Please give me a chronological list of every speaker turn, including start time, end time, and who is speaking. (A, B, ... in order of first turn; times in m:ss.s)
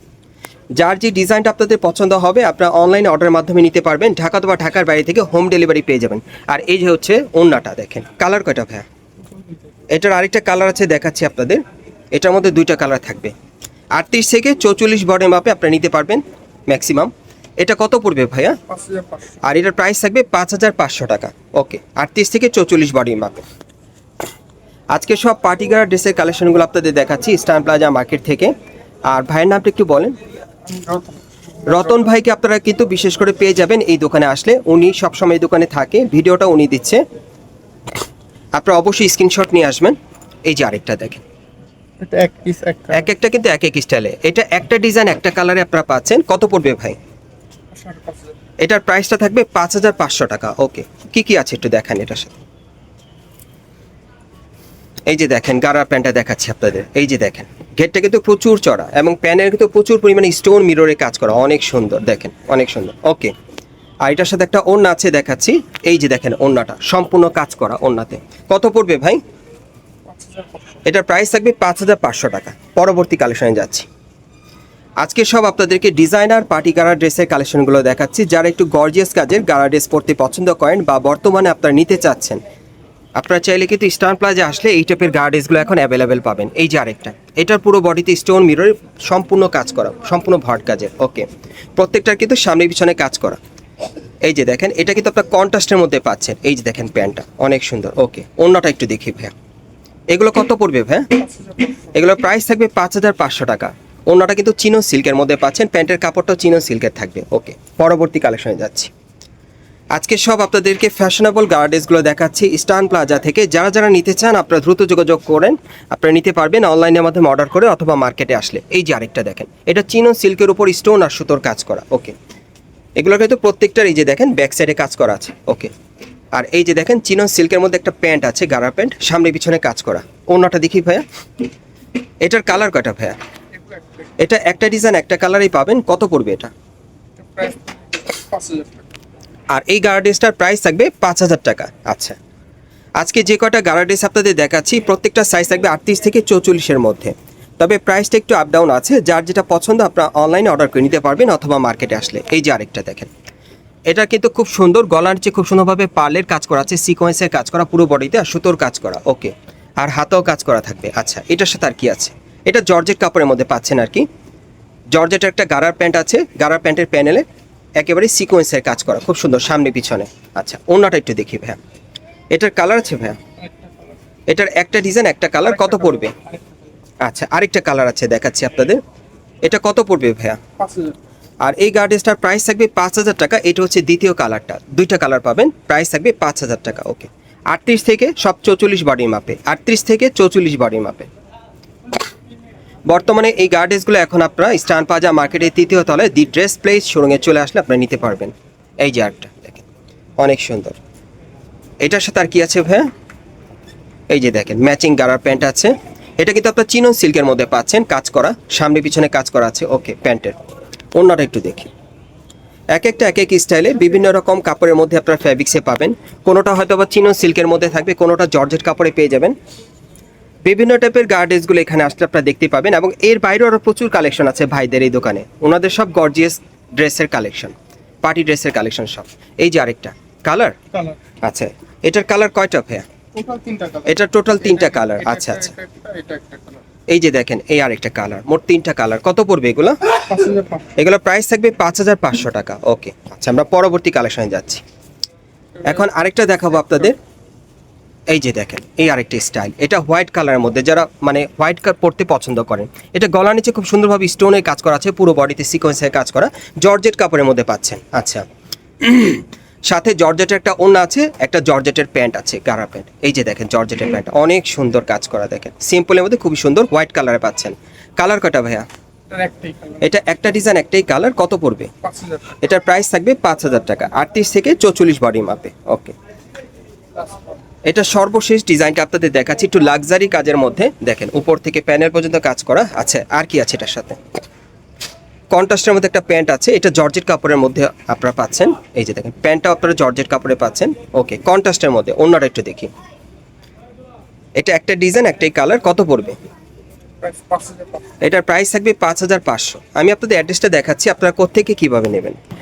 0:00.8-0:08.9 A
0:09.9-0:11.6 A
0:12.1-0:13.3 A
0:13.9-0:18.6 A
0:18.7-0:19.4 B
0:19.4-0:23.4 A
0:24.9-0:28.5 A
0:29.1-0:30.2 A
0:30.7-0:31.9 B
0:31.7-0:37.0 A
0:38.6-0:41.2 A
0:42.0-0:43.1 B
0:42.9-0:47.0 A
0:47.7-0:48.3 B
0:48.6-0:52.4 A
0:55.1-1:03.3 A
1:04.0-1:09.2 A
1:10.1-1:10.8 B
1:10.8-1:13.9 A
1:15.0-1:22.4 A
1:23.2-1:33.4 A
1:34.2-1:39.3 A
1:40.1-1:41.1 A
1:41.2-1:41.9 B
1:41.9-1:48.9 A
1:49.9-2:02.2 A
2:03.0-2:05.7 A
2:06.3-2:11.0 A
2:12.2-2:13.2 A
2:14.2-2:16.5 A
2:17.2-2:18.8 B
2:19.5-2:22.2 A
2:23.0-2:33.1 A
2:33.9-2:44.1 A
2:44.9-2:47.3 A
2:47.8-2:51.6 A
2:52.3-2:53.2 A
2:53.4-2:54.0 B
2:54.3-2:56.1 A
2:55.5-2:56.5 B
2:57.0-2:58.8 A
2:59.4-3:00.4 A
3:00.6-3:01.0 B
3:01.4-3:11.1 A
3:12.9-3:19.6 A
3:20.2-3:20.8 A
3:21.8-3:22.9 A
3:24.1-3:30.4 A
3:31.0-3:31.7 A
3:32.8-3:39.4 A
3:40.4-3:50.6 A
3:50.7-3:51.0 B
3:51.2-3:52.9 A
3:53.2-3:56.6 B
3:53.9-3:55.5 A
3:56.9-4:00.0 A
4:00.1-4:00.7 B
4:00.8-4:04.6 A
4:05.6-4:07.0 A
4:08.1-4:18.2 A
4:18.8-4:28.7 A
4:29.1-4:29.8 B
4:29.8-4:31.7 A
4:31.8-4:32.3 B
4:32.4-4:36.0 A
4:37.7-4:44.0 A
4:45.3-4:52.7 A
4:54.4-4:56.2 A
4:57.0-4:57.8 B
4:58.0-5:02.2 A